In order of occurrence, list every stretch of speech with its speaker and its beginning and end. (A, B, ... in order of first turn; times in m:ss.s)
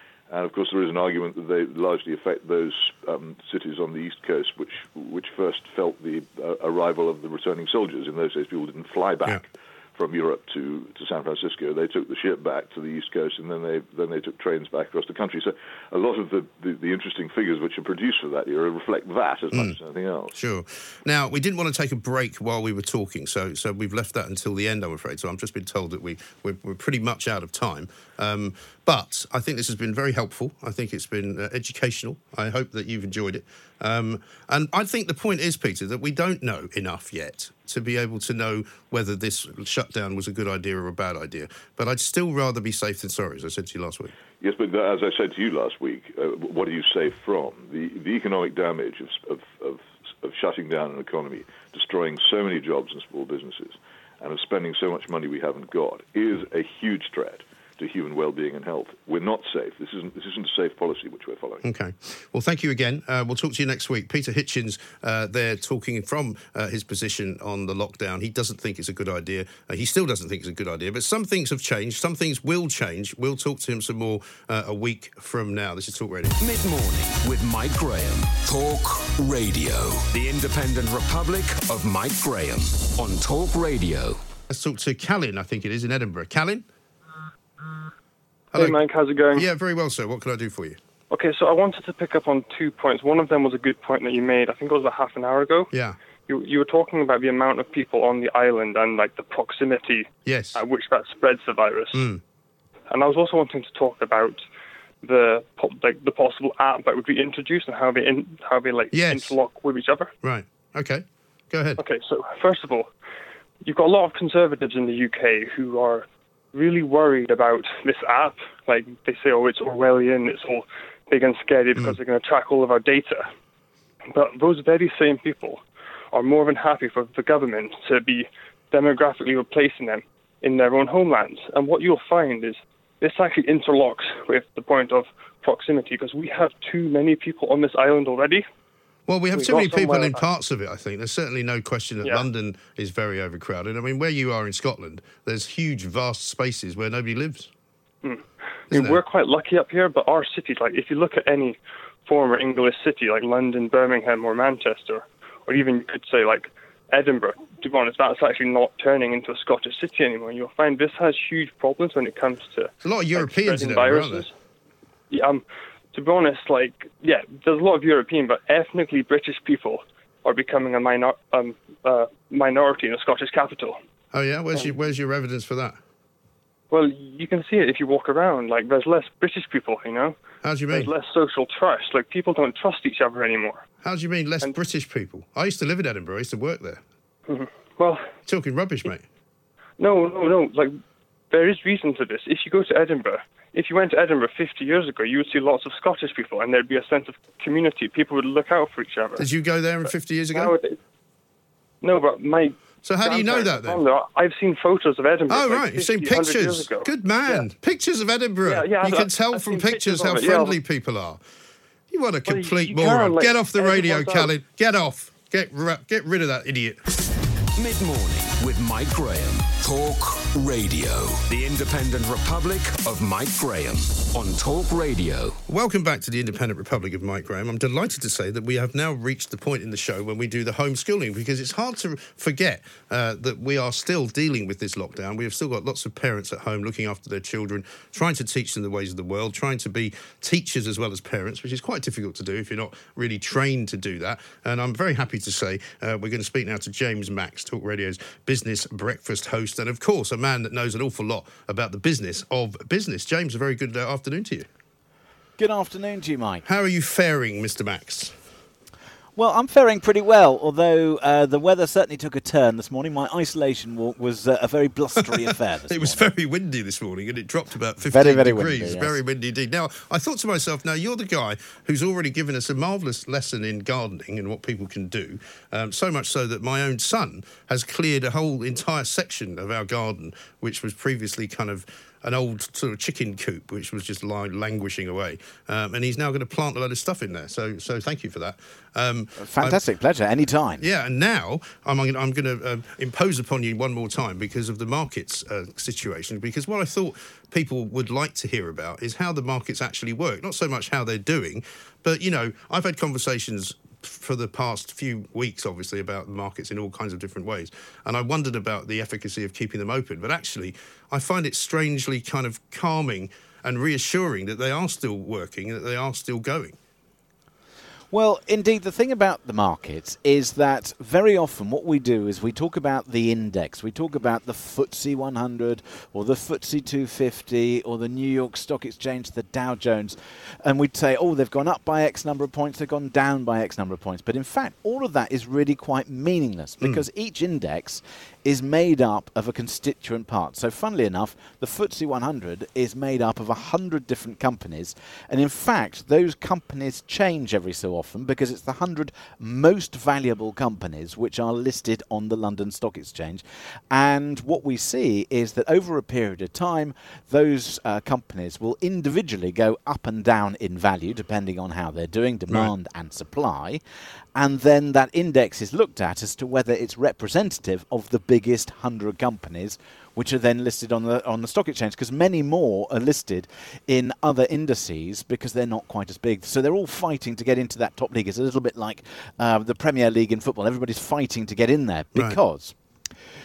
0:00.3-0:20.3 A
0:20.3-0:44.1 B
0:44.4-1:01.6 A
1:01.6-1:16.4 B
1:16.4-1:24.2 C
1:24.5-1:26.6 B
1:28.5-1:28.8 B
1:28.6-1:29.5 D
1:29.3-1:30.8 B
1:31.1-1:35.7 D
1:35.7-1:36.0 B
1:36.3-1:42.0 D
1:40.2-1:40.6 B
1:41.9-1:42.2 B
1:42.9-1:44.4 D
1:45.0-1:50.1 D
1:48.9-1:49.4 B
1:50.2-1:51.8 B
1:51.8-1:52.9 D
1:53.6-2:03.3 D
2:04.1-2:18.4 D
2:19.1-2:27.5 B
2:19.3-2:20.2 D
2:28.0-2:44.3 D
2:28.7-2:29.0 B
2:42.8-2:44.3 B
2:45.1-2:53.8 D
2:54.1-2:55.8 B
2:56.7-3:00.2 D
3:00.4-3:00.9 B
3:00.7-3:03.6 D
3:03.8-3:06.8 B
3:07.3-3:08.0 D
3:08.3-3:09.0 B
3:09.8-3:10.8 D
3:11.3-3:19.3 D
3:19.2-3:20.5 B
3:20.3-3:20.8 D
3:21.8-3:27.5 D
3:22.8-3:23.8 B
3:25.3-3:31.2 B
3:28.4-3:30.6 D
3:31.9-3:36.8 B
3:32.2-3:34.3 D
3:37.6-3:45.4 C
3:45.5-4:14.5 B
4:15.4-4:16.4 E
4:16.4-4:18.1 B
4:19.2-4:26.1 E
4:25.7-4:49.6 B
4:27.8-4:29.0 E
4:49.2-4:50.6 E
4:50.6-5:16.6 B
5:17.9-6:03.6 E
6:04.2-6:22.6 E